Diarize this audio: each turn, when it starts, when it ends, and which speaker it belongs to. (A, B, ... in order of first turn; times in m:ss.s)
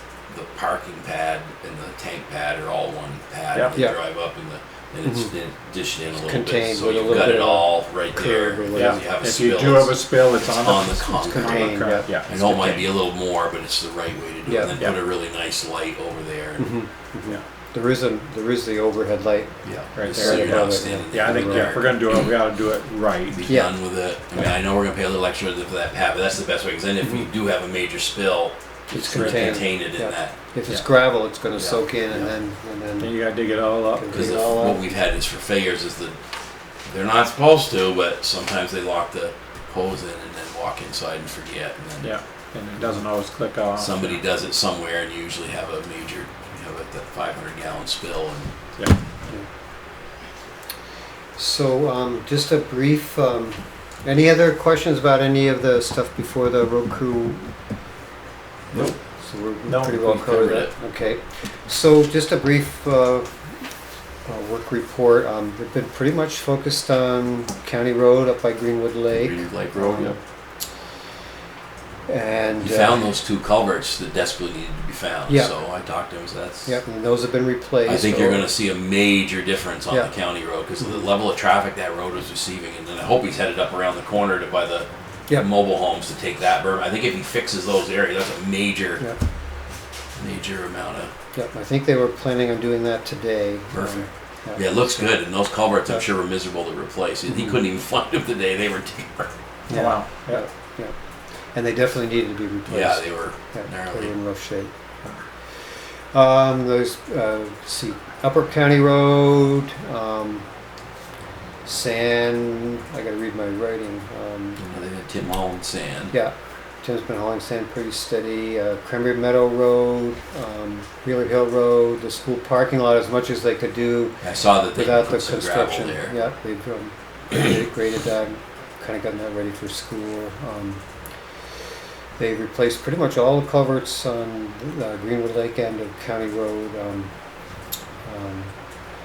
0:00.3-0:16.7 A
0:05.0-0:05.3 B
0:06.2-0:09.0 B
0:08.7-0:12.3 C
0:11.1-0:12.9 B
0:14.4-0:14.7 B
0:16.6-0:21.7 B
0:19.6-0:22.3 A
0:20.0-0:23.4 C
0:23.3-0:30.4 A
0:23.5-0:23.7 B
0:27.0-0:27.3 B
0:28.9-0:33.2 B
0:28.9-0:29.6 C
0:31.5-0:32.3 A
0:33.0-0:34.3 C
0:33.9-0:34.9 B
0:34.1-0:36.2 A
0:36.9-0:42.1 A
0:42.0-0:44.2 C
0:43.8-0:48.5 A
0:51.4-0:57.5 B
0:58.7-1:03.3 B
0:59.7-1:00.1 C
1:00.0-1:00.7 A
1:04.2-1:10.2 B
1:09.1-1:10.2 A
1:12.1-1:13.1 B
1:12.6-1:16.8 A
1:15.3-1:15.5 B
1:16.6-1:18.4 B
1:17.8-1:29.0 A
1:20.8-1:21.1 B
1:30.2-1:31.1 A
1:31.3-1:35.2 B
1:33.7-1:39.3 A
1:37.3-1:37.6 B
1:39.7-1:40.9 B
1:39.7-1:40.4 C
1:41.5-1:44.7 B
1:42.7-1:44.1 A
1:46.1-1:50.5 B
1:51.6-1:54.6 B
1:54.6-1:56.1 A
1:56.1-2:10.8 B
2:04.2-2:06.1 A
2:12.2-2:17.1 B
2:18.0-2:18.5 B